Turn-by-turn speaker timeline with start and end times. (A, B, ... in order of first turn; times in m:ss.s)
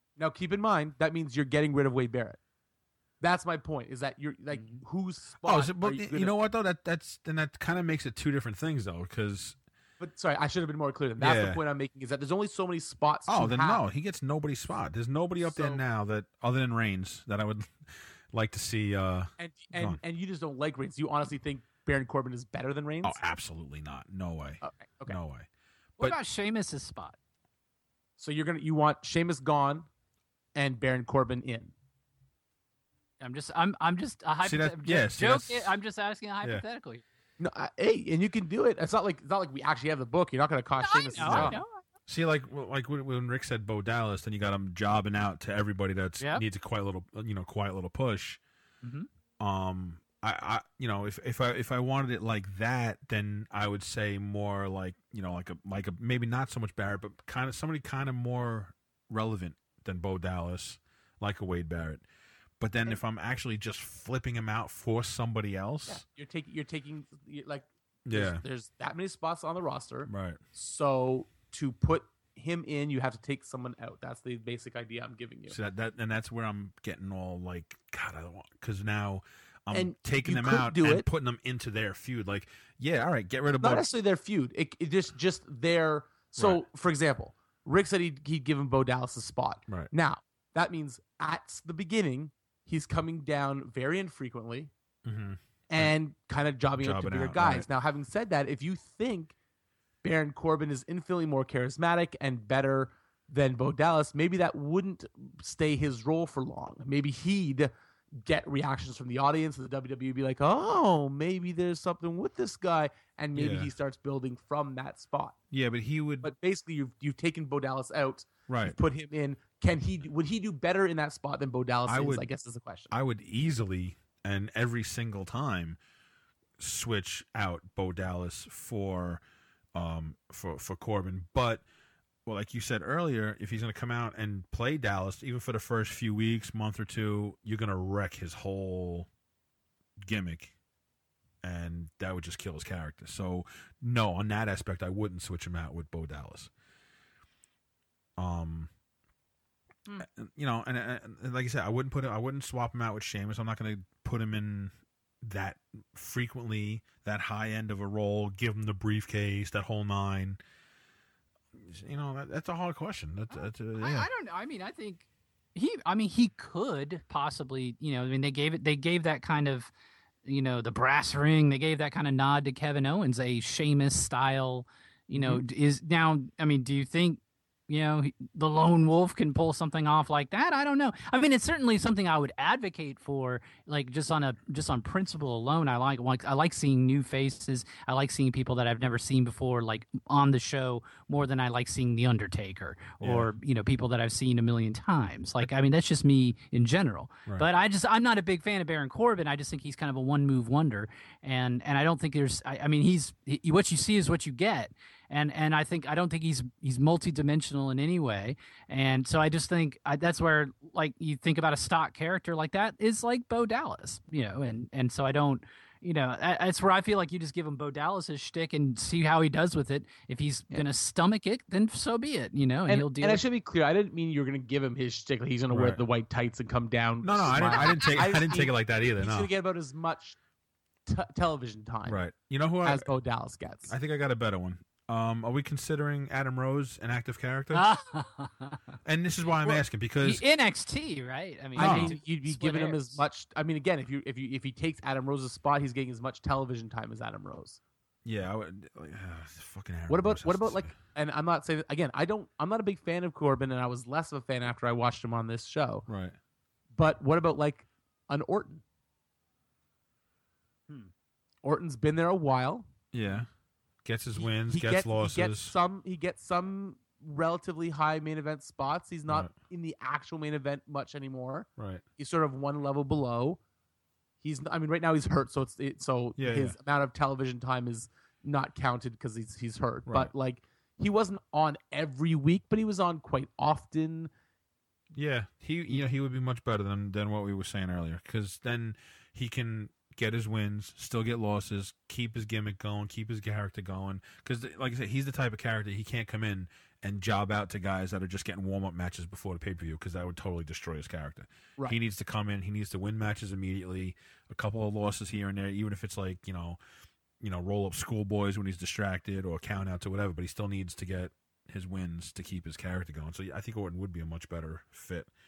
0:00.2-0:02.4 A
0:03.2-0:06.4 A
0:04.5-0:04.8 B
0:05.4-0:09.6 C
0:10.0-0:13.8 A
0:11.2-0:11.6 C
0:13.3-0:20.0 C
0:15.4-0:15.8 A
0:19.4-0:23.2 A
0:23.0-0:25.5 C
0:24.6-0:25.2 A
0:26.0-0:27.2 B
0:28.2-0:29.9 A
0:30.5-0:31.7 A
0:33.2-0:37.0 B
0:34.4-0:35.8 C
0:37.4-0:41.6 A
0:40.8-0:41.8 B
0:41.2-0:48.4 C
0:48.8-0:49.1 B
0:49.4-1:02.0 C
1:02.6-1:06.0 C
1:05.9-1:15.6 A
1:08.0-1:08.4 C
1:10.0-1:10.4 C
1:15.5-1:23.9 C
1:19.7-1:21.0 A
1:23.6-1:34.7 A
1:26.4-1:26.6 C
1:35.0-1:35.9 C
1:35.7-1:39.3 A
1:36.8-1:37.7 C
1:40.0-1:55.4 A
1:53.3-1:53.7 C
1:55.5-1:56.3 C
1:56.2-2:02.9 A
1:58.5-1:58.8 C
2:01.9-2:02.2 C
2:02.9-2:05.8 C
2:06.6-2:09.2 C
2:09.7-2:11.6 C
2:12.2-2:19.1 C
2:20.0-2:20.5 C
2:21.4-2:26.5 C
2:28.2-2:28.7 C
2:30.0-2:40.4 C
2:41.5-2:44.1 C
2:43.4-2:49.7 B
2:50.2-3:43.2 B
3:13.0-3:13.3 C
3:42.7-3:50.2 A
3:45.5-3:45.8 C
3:47.0-3:49.3 C
3:50.8-3:52.0 A
3:51.9-3:52.9 C
3:52.6-3:53.7 A
3:53.7-3:57.7 C
3:57.5-3:58.6 B
3:58.8-4:00.2 C
3:59.4-4:03.0 B
4:01.6-4:01.9 C
4:01.6-4:07.6 A
4:08.0-4:10.7 C
4:09.9-4:15.8 A
4:15.9-4:16.2 C
4:16.8-4:18.6 A
4:21.4-4:22.6 A
4:22.9-4:23.3 C
4:23.8-4:25.6 C
4:24.5-4:33.4 A
4:31.6-4:31.8 C
4:34.2-4:44.1 A
4:36.2-4:36.6 C
4:39.9-4:40.1 C
4:44.9-5:06.6 C
5:07.2-5:15.1 C